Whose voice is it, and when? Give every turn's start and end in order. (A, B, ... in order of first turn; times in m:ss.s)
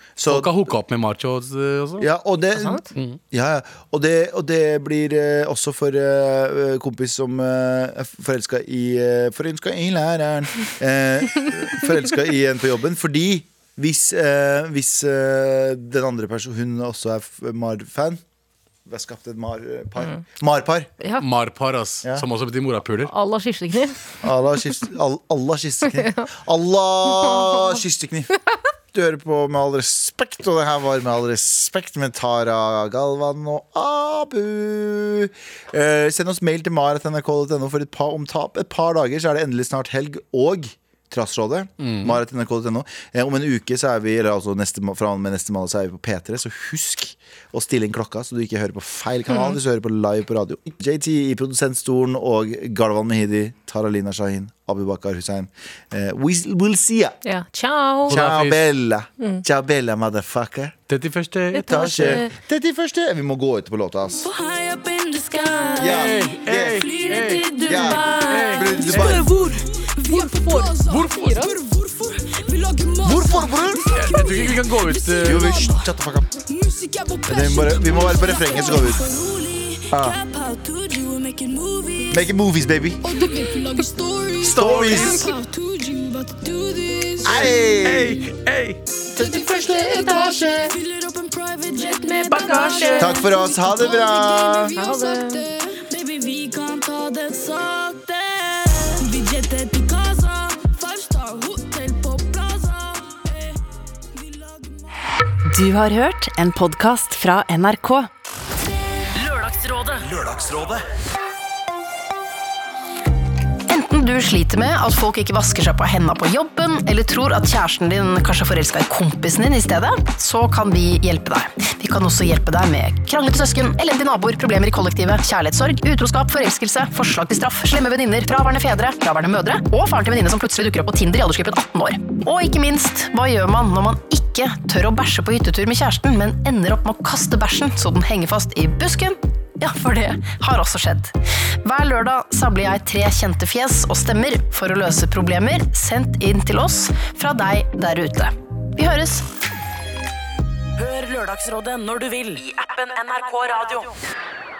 0:00.2-0:00.5 A
0:00.3-0:02.1 B
0:02.0-0:18.2 A
0:02.6-0:02.8 C
0:18.9-0:20.9 A
0:21.2-0:23.1 B
0:23.1-0:24.0 C
0:24.2-0:28.3 A
0:28.9-0:57.2 A
0:41.8-0:42.2 B
0:49.3-0:49.6 C
0:57.2-0:58.2 C
0:58.1-0:58.6 B
0:58.1-1:00.8 A
1:00.9-1:02.2 B
1:01.5-1:02.4 C
1:01.6-1:04.3 A
1:04.2-1:15.9 D
1:05.8-1:06.8 A
1:05.8-1:07.6 B
1:07.1-1:11.6 C
1:07.6-1:09.3 A
1:08.1-1:09.2 B
1:10.9-1:11.2 B
1:13.0-1:14.1 A
1:14.0-1:15.6 B
1:15.2-1:16.3 A
1:16.5-1:22.3 D
1:17.3-1:19.1 A
1:19.9-1:20.2 A
1:22.1-1:23.0 A
1:23.0-1:27.7 D
1:24.4-1:25.3 B
1:24.4-1:25.3 A
1:27.2-1:28.2 A
1:27.8-1:28.8 B
1:29.1-1:45.0 D
1:29.1-1:30.7 A
1:29.6-1:30.7 C
1:32.3-1:33.2 B
1:32.4-1:33.0 C
1:33.0-1:34.8 A
1:34.8-1:35.5 C
1:45.5-1:48.1 E
1:49.1-1:50.2 F
1:50.0-1:50.8 A
1:53.7-2:29.2 G
2:30.8-2:34.0 F